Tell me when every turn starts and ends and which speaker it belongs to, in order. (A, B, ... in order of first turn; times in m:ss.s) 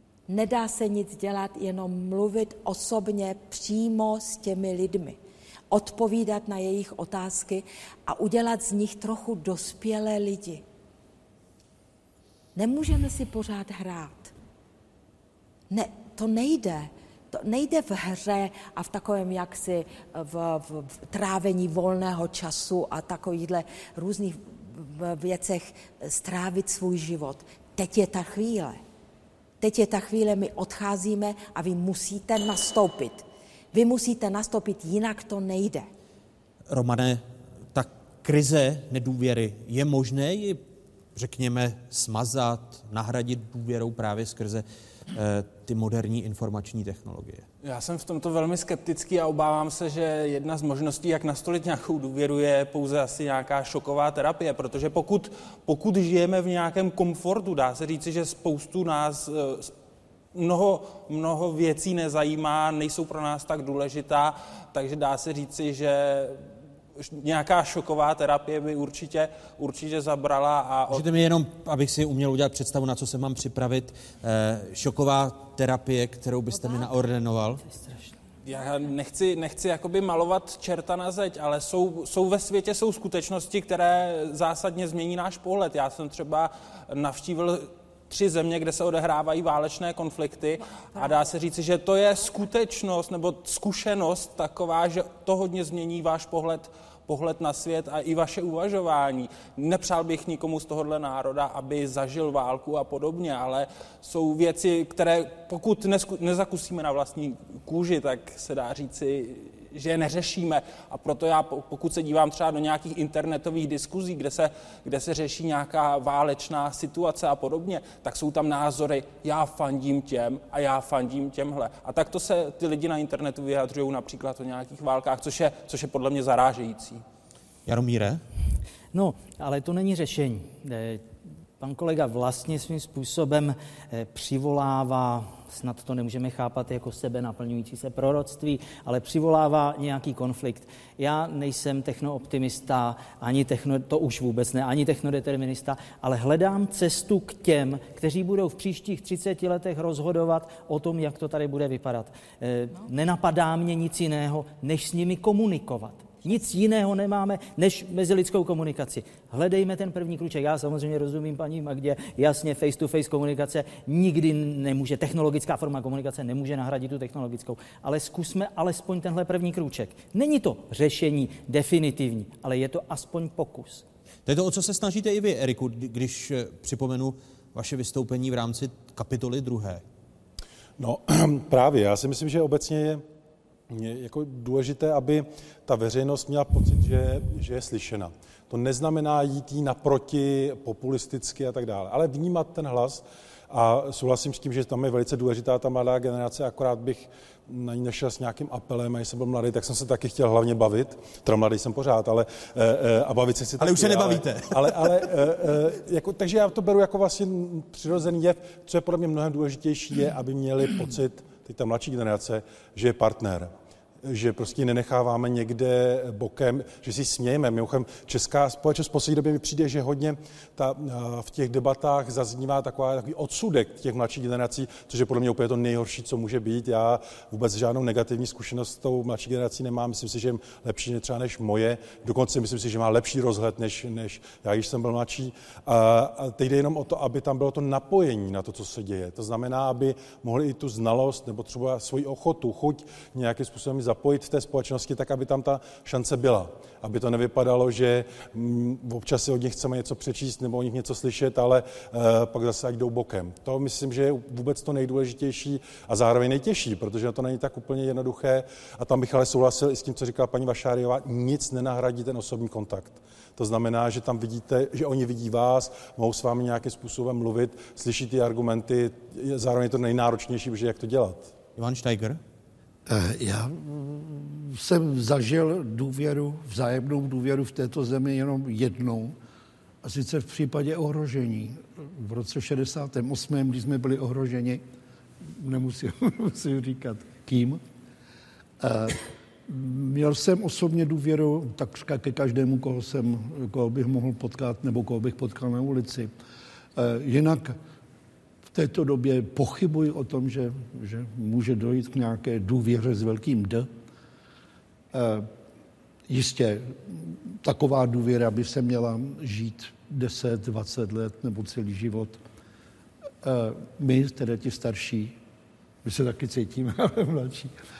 0:00.3-0:05.2 A
0:05.7-0:10.6 A
0:12.6-0:14.3 A
0:15.7-0:28.8 A
0:29.6-0:35.9 A
0:36.7-0:40.6 B
0:41.2-0:47.5 B
0:47.6-0:59.7 C
1:00.3-1:06.4 C
1:07.0-1:11.0 C
1:10.9-1:17.6 B
1:18.4-2:07.0 C
2:07.7-2:08.2 B
2:08.9-2:11.1 D
2:11.6-2:53.8 D
2:54.3-2:59.8 B
3:00.8-3:03.0 E
3:03.7-3:33.5 E
3:23.6-3:25.0 B
3:34.0-4:31.4 E
4:31.6-4:32.2 B
4:32.9-4:39.2 F
4:39.8-4:44.6 F
4:45.2-4:47.6 F
4:48.6-4:56.1 F
4:56.8-4:57.6 F
4:58.5-5:03.7 F
5:04.9-5:05.3 F
5:06.1-5:12.2 F
5:13.2-5:15.2 F
5:15.8-5:17.5 F